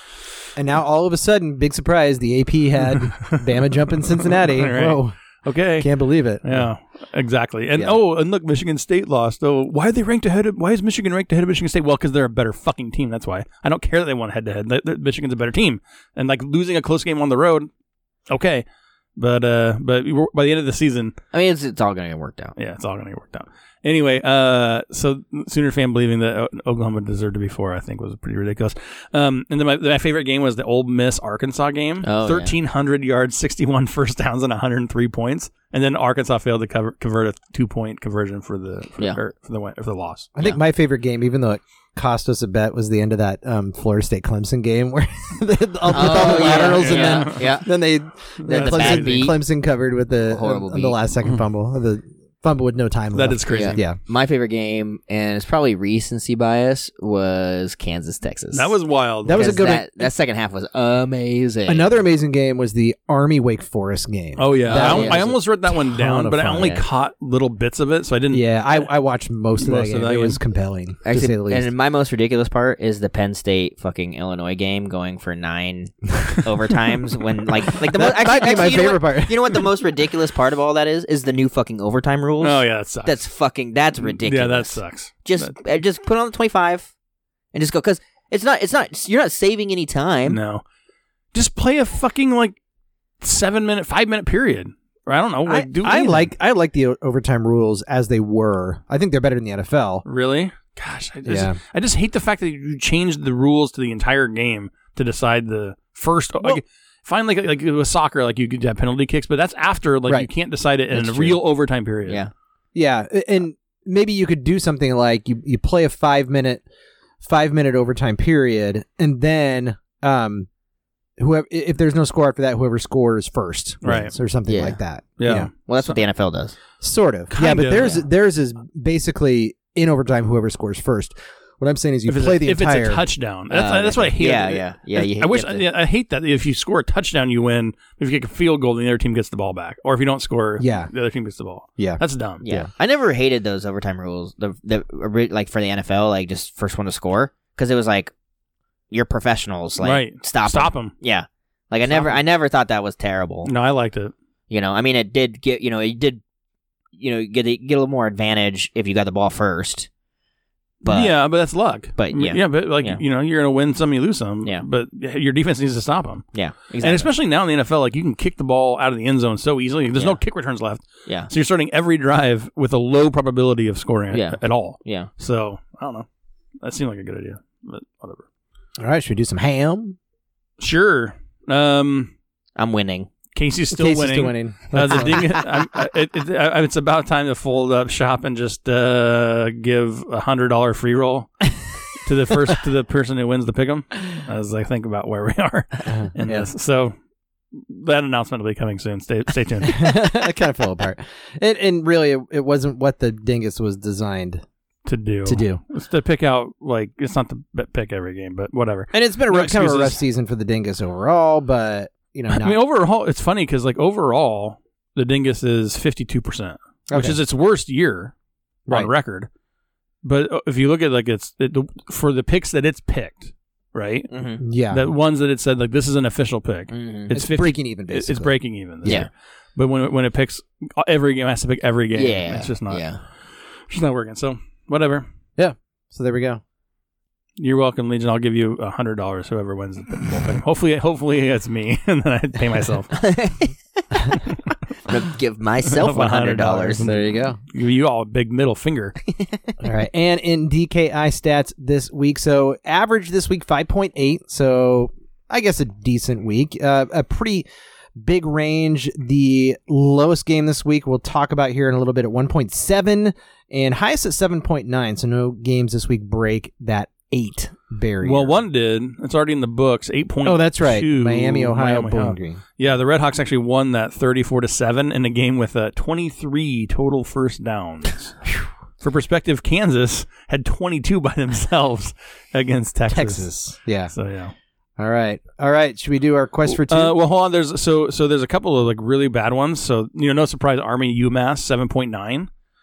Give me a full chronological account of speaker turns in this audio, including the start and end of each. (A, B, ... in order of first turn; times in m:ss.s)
0:00.6-0:05.1 A
0:03.1-0:03.4 B
0:04.1-0:05.9 B
0:05.8-0:06.7 A
0:06.4-0:17.7 B
0:18.3-0:18.6 B
0:19.2-0:21.2 B
0:21.3-0:22.5 C
0:22.6-0:40.3 B
0:32.0-0:32.5 C
0:40.4-0:54.0 A
0:45.9-0:47.5 B
0:45.9-0:47.7 C
0:48.4-0:49.3 B
0:48.4-0:49.4 C
0:50.3-0:51.0 C
0:53.1-0:53.8 B
0:53.5-0:58.7 C
0:58.5-0:59.6 B
0:59.2-1:00.1 A
0:59.3-1:01.9 C
1:01.6-1:06.8 A
1:04.4-1:08.9 B
1:04.7-1:05.2 C
1:08.3-1:11.7 A
1:09.6-1:10.4 B
1:11.0-1:26.9 C
1:17.8-1:19.6 A
1:22.4-1:23.2 B
1:24.0-1:25.5 B
1:27.5-1:30.4 C
1:30.3-1:30.6 B
1:31.3-1:32.6 B
1:33.2-1:36.3 B
1:35.4-1:40.0 A
1:40.0-1:52.2 B
1:41.2-1:41.6 A
1:50.9-1:51.4 A
1:52.7-1:56.6 A
1:57.2-2:00.5 A
2:01.2-2:05.5 A
2:03.8-2:04.1 B
2:04.5-2:04.8 C
2:05.2-2:06.0 B
2:05.7-2:06.5 C
2:06.8-2:13.0 A
2:07.3-2:08.0 B
2:12.1-2:22.4 B
2:13.5-2:15.6 C
2:20.6-2:20.9 A
2:21.8-2:22.7 A
2:22.4-2:28.1 C
2:28.9-2:33.5 C
2:29.8-2:30.9 B
2:31.9-2:32.1 B
2:33.4-2:34.1 B
2:34.5-2:36.2 C
2:37.0-2:39.9 C
2:40.8-2:41.1 C
2:40.8-2:56.0 B
2:42.0-2:43.0 C
2:46.3-2:47.1 C
2:54.1-2:55.1 C
2:56.6-2:58.2 B
2:58.8-3:00.0 A
3:00.6-3:02.1 B
3:02.6-3:03.1 C
3:03.3-3:16.9 B
3:03.7-3:05.2 A
3:15.9-3:16.5 A
3:17.5-3:20.0 B
3:19.6-3:24.4 A
3:24.8-3:30.0 B
3:25.2-3:25.6 A
3:28.9-3:32.6 A
3:32.3-3:38.1 B
3:36.9-3:37.2 A
3:38.7-3:39.3 B
3:40.0-3:44.1 B
3:44.1-3:44.4 C
3:44.4-3:44.8 A
3:44.7-3:52.8 B
3:46.7-3:47.1 C
3:47.1-3:49.1 A
3:51.9-3:53.0 C
3:53.7-3:55.0 B
3:55.4-3:56.4 A
3:57.4-4:02.9 B
4:02.9-4:03.5 C
4:04.8-4:06.9 C
4:05.7-4:09.0 B
4:06.8-4:07.4 A
4:09.2-4:09.5 C
4:09.6-4:17.4 A
4:18.0-4:28.4 A
4:28.0-4:38.2 B
4:30.2-4:32.4 A
4:38.8-4:43.3 B
4:42.9-4:43.9 A
4:43.9-4:44.3 B
4:44.8-4:46.9 A
4:46.5-4:52.3 B